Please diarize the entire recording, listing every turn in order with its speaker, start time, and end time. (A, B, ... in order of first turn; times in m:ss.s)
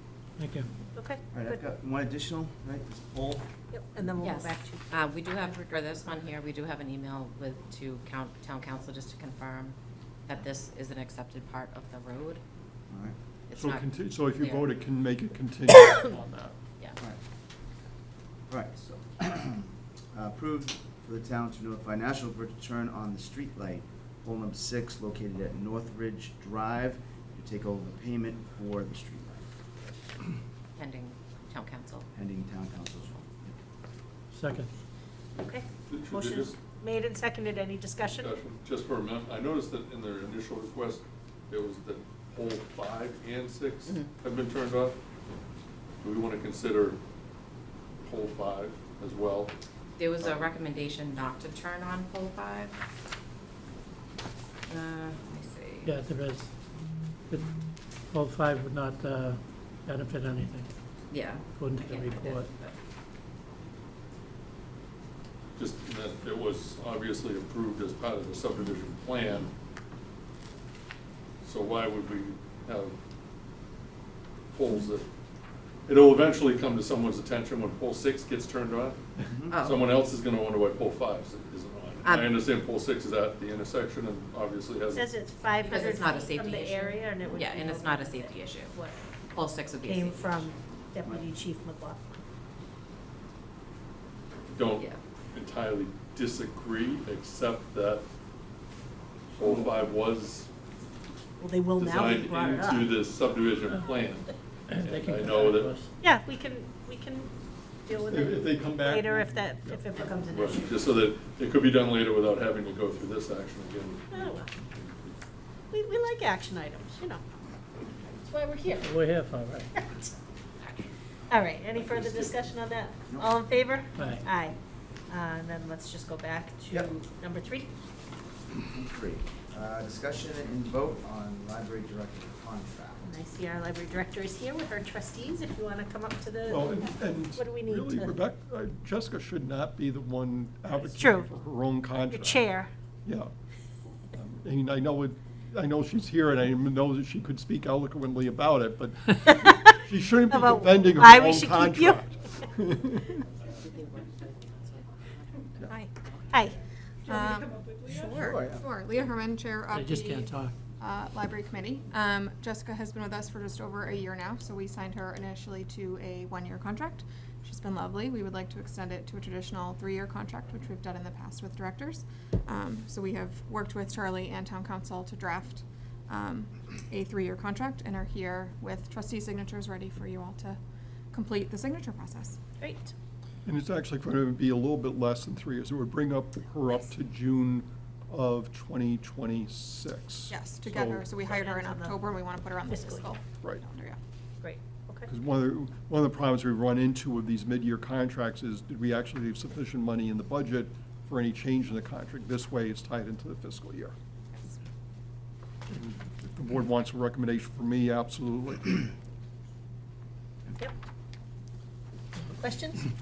0:00.4-0:00.7 A
0:00.9-0:01.6 B
0:01.3-0:03.5 C
0:03.7-0:05.0 B
0:04.2-0:09.8 D
0:10.3-0:12.4 D
0:12.9-0:13.2 C
0:13.5-0:14.6 D
0:13.6-0:16.5 E
0:18.5-0:29.5 C
0:30.8-0:32.1 D
0:32.1-0:33.6 C
0:34.3-0:34.7 A
0:35.4-0:38.3 B
0:35.9-0:36.6 F
0:38.1-0:45.0 F
0:46.0-0:47.0 F
0:48.0-0:49.5 F
0:50.0-0:52.7 D
0:50.2-0:50.5 F
0:54.7-0:55.9 D
0:55.8-0:56.5 A
0:58.1-1:00.7 A
1:01.1-1:02.7 D
1:01.6-1:02.5 A
1:05.6-1:09.5 F
1:11.4-1:12.9 F
1:14.5-1:15.0 F
1:15.9-1:19.0 F
1:19.2-1:19.6 C
1:19.5-1:19.9 D
1:19.6-1:25.1 F
1:22.0-1:22.4 D
1:24.9-1:29.0 B
1:25.6-1:28.7 D
1:29.3-1:30.5 D
1:29.8-1:32.0 B
1:34.5-1:38.0 F
1:39.3-1:40.5 F
1:41.4-1:43.0 B
1:41.8-1:45.7 F
1:44.7-1:45.9 A
1:46.0-1:50.9 B
1:48.1-1:49.8 E
1:50.3-1:54.2 F
1:54.1-1:54.5 B
1:55.7-1:57.2 B
1:58.2-1:58.9 B
1:58.8-1:59.7 A
1:59.7-2:00.1 B
2:01.3-2:04.6 B
2:01.9-2:02.3 F
2:03.1-2:03.4 C
2:03.9-2:04.2 A
2:05.1-2:07.7 B
2:08.5-2:13.1 C
2:13.0-2:18.2 B
2:16.5-2:22.5 E
2:20.8-2:21.3 B
2:22.1-2:22.7 B
2:23.0-2:23.3 E
2:24.1-2:33.2 E
2:30.3-2:32.0 B
2:35.7-2:36.6 B
2:37.0-3:00.6 G
2:38.0-2:38.6 C
2:39.7-2:40.6 A
3:01.1-3:02.4 G
3:02.6-3:02.9 B
3:03.4-3:11.0 E
3:10.3-3:14.0 G
3:11.2-3:12.1 B
3:12.6-3:13.1 B
3:14.4-3:15.1 B
3:15.1-3:23.9 E
3:25.7-3:28.8 E
3:32.3-3:32.8 B